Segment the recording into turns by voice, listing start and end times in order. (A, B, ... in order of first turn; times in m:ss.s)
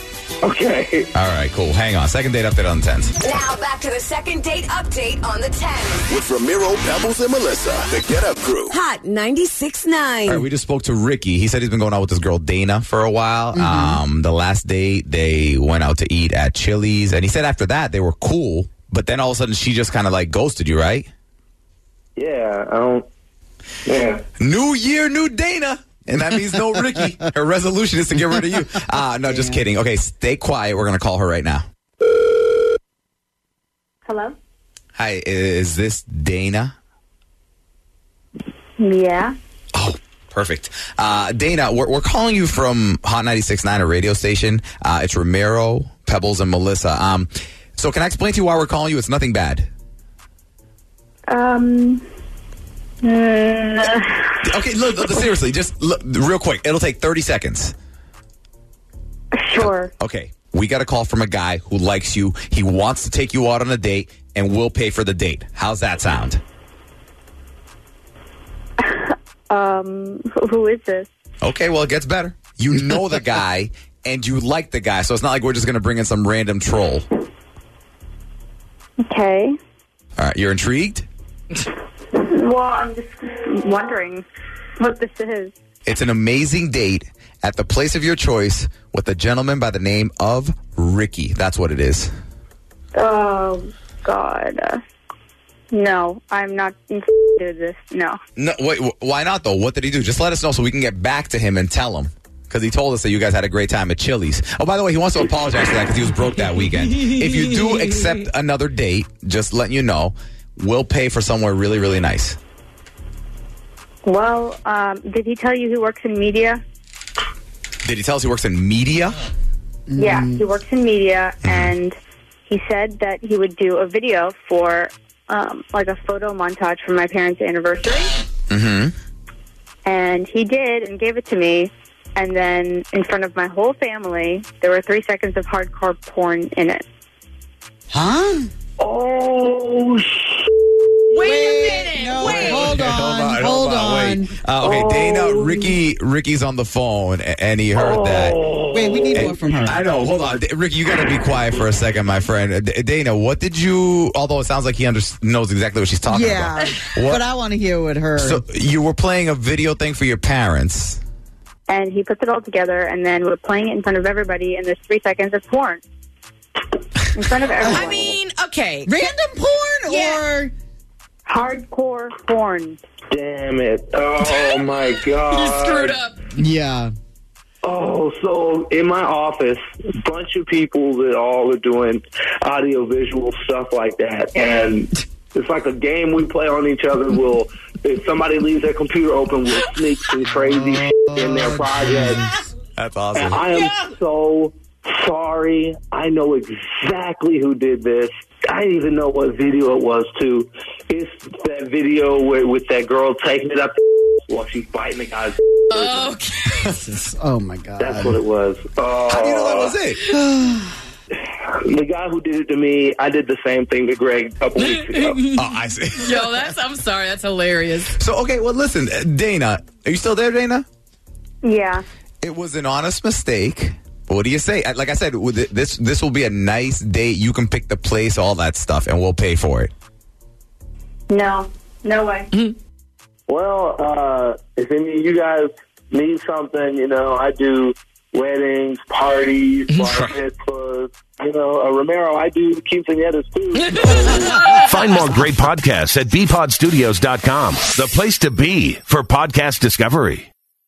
0:00.4-0:01.1 A
0:01.1-0:03.1 B
0:03.2-0:06.1 C
0:06.1-0:08.8 D
0:08.7-0:10.4 C
0:10.2-0:21.1 B
0:13.5-0:14.0 E
0:22.2-0:23.0 A
0:23.8-0:24.2 A
0:24.4-0:31.6 B
0:29.3-0:29.6 E
0:34.1-0:34.4 F
0:35.0-0:36.7 B
0:38.8-0:39.4 F
0:39.7-0:49.7 B
0:51.3-0:52.0 F
0:53.0-0:54.4 F
0:54.4-0:57.7 B
0:59.4-0:59.9 F
0:59.6-1:06.4 B
1:08.8-1:11.1 F
1:11.4-1:17.1 B
1:19.0-1:19.5 F
1:20.2-1:21.1 B
1:22.2-1:24.2 F
1:24.8-1:25.5 F
1:25.9-1:32.1 B
1:33.0-1:34.8 F
1:35.7-1:38.2 F
1:38.4-1:52.4 B
1:54.0-1:56.6 F
1:57.8-1:59.2 B
1:59.9-2:00.4 E
2:00.0-2:02.0 F
2:01.4-2:01.7 B
2:02.5-2:08.1 F
2:08.5-2:08.9 B
2:09.8-2:16.8 F
2:17.9-2:18.5 E
2:18.8-2:20.5 A
2:21.1-2:22.9 G
2:21.3-2:24.4 E
2:22.2-2:28.4 B
2:24.6-2:25.7 A
2:27.8-2:29.3 A
2:28.7-2:29.8 E
2:29.1-2:37.2 B
2:36.1-2:38.4 E
2:38.2-2:41.0 B
2:41.7-2:45.8 F
2:47.1-2:48.2 F
2:47.7-2:49.1 G
2:48.9-2:50.5 E
2:49.9-2:50.2 G
2:51.3-2:52.8 F
2:53.1-2:56.0 A
2:54.2-2:54.7 G
2:55.3-2:56.2 G
2:56.4-2:56.9 E
2:57.6-3:12.2 A
3:11.0-3:12.2 E
3:12.8-3:13.4 B
3:13.2-3:23.7 A
3:24.3-3:26.2 A
3:25.7-3:26.8 G
3:26.8-3:28.2 E
3:27.8-3:29.8 A
3:29.1-3:30.1 B
3:30.1-3:30.6 E
3:31.4-3:35.3 A
3:34.6-3:38.0 G
3:35.3-3:36.5 B
3:37.9-3:40.6 B
3:41.4-3:41.8 F
3:42.2-3:49.7 B
3:51.1-3:52.3 F
3:53.3-4:04.4 A
3:59.7-4:00.1 G
4:03.7-4:04.0 G
4:04.6-4:10.3 H